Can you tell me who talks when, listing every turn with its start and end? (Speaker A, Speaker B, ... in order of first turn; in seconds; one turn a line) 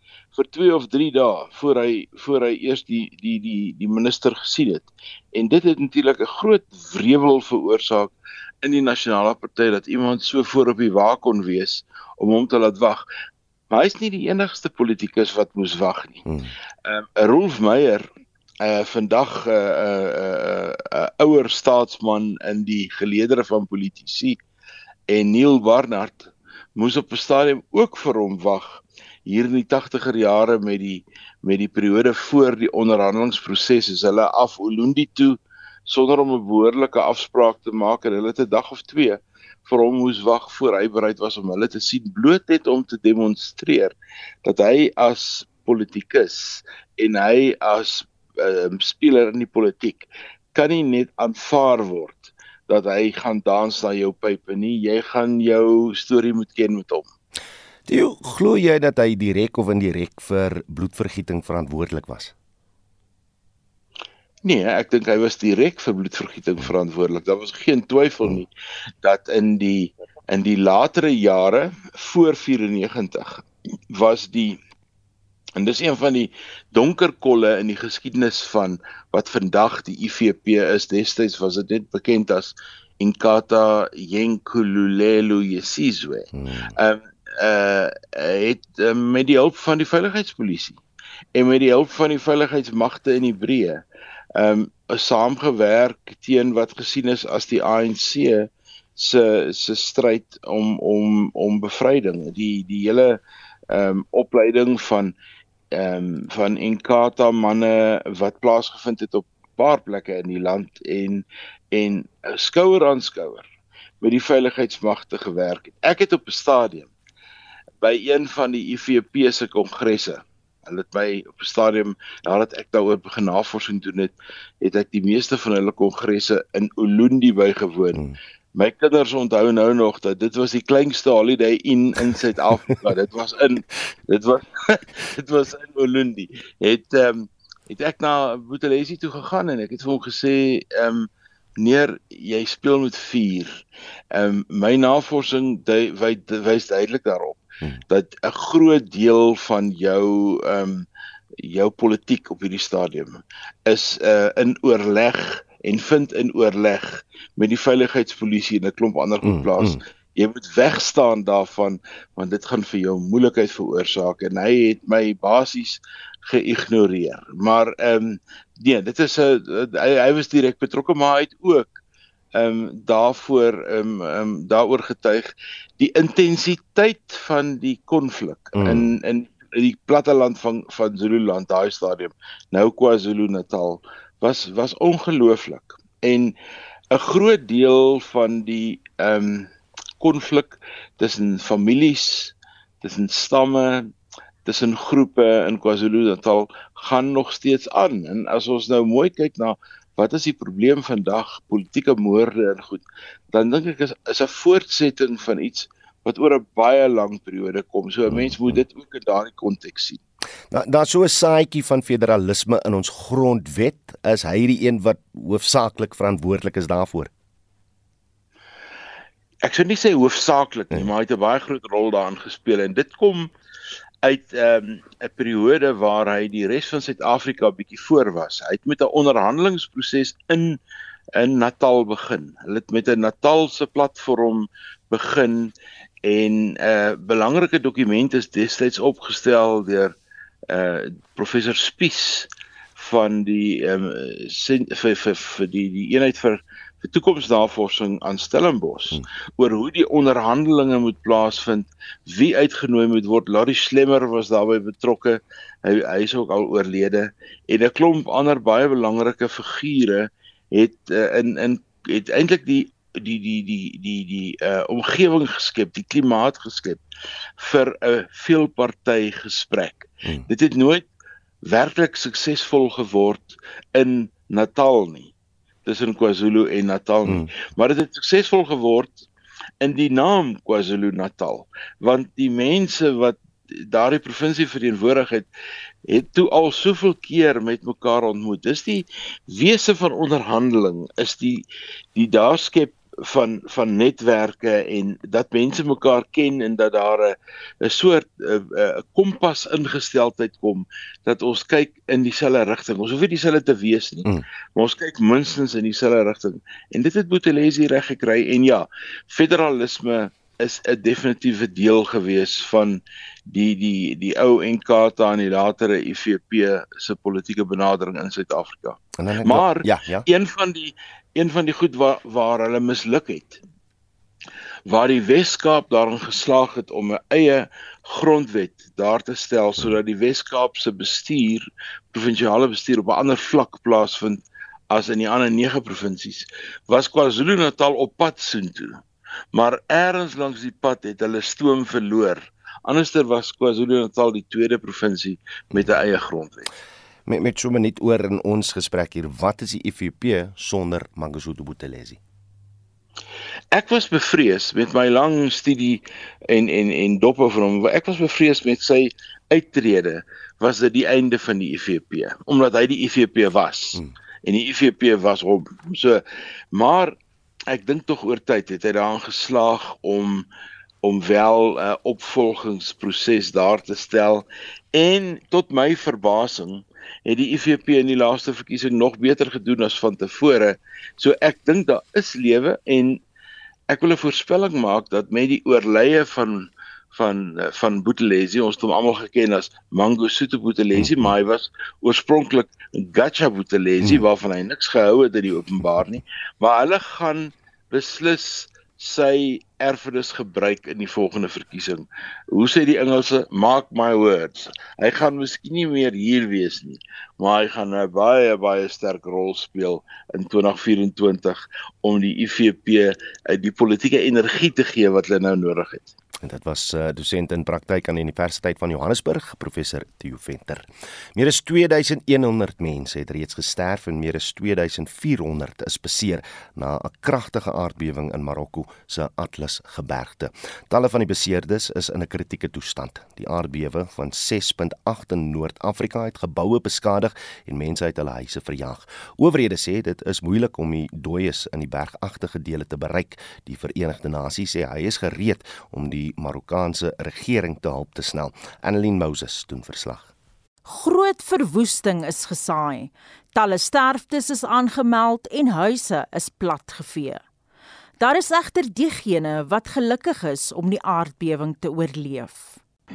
Speaker A: 0.3-13.0
Speaker A: 13.7-16.2
Speaker B: 16.2-16.5
Speaker A: 16.9-18.1
Speaker A: 18.6-24.4
Speaker A: 25.1-43.9
Speaker A: 44.4-57.1
Speaker B: 57.9-62.3
Speaker A: 64.4-68.5
Speaker A: 69.0-74.6
Speaker A: 75.6-90.8
Speaker B: 86.3-86.7
Speaker A: 91.3-93.8
Speaker A: 94.4-103.2
Speaker A: 103.7-105.1
Speaker A: 105.7-113.5
Speaker A: 114.0-116.9
Speaker A: 117.8-128.0
Speaker A: 128.5-143.6
Speaker A: 144.1-150.9
Speaker A: 151.4-171.8
Speaker B: 159.2-159.8
Speaker A: 172.3-186.3
Speaker B: 178.6-178.9
Speaker A: 186.9-193.9
Speaker A: 194.4-210.0
Speaker B: 208.1-208.6
Speaker B: 210.5-217.1
Speaker A: 219.4-223.3
Speaker A: 224.0-230.6
Speaker A: 231.2-239.9
Speaker A: 240.5-266.8
Speaker A: 267.4-270.9
Speaker A: 271.4-275.1
Speaker A: 275.6-279.1
Speaker A: 279.6-285.3
Speaker A: 285.9-323.4
Speaker B: 319.0-320.1
Speaker A: 324.6-338.8
Speaker A: 339.3-346.4
Speaker B: 347.1-352.0
Speaker A: 353.5-366.0
Speaker A: 366.5-366.9
Speaker A: 367.5-370.3
Speaker A: 370.8-383.0
Speaker A: 383.7-415.9
Speaker B: 416.2-450.1
Speaker C: 450.6-457.2
Speaker C: 458.0-462.6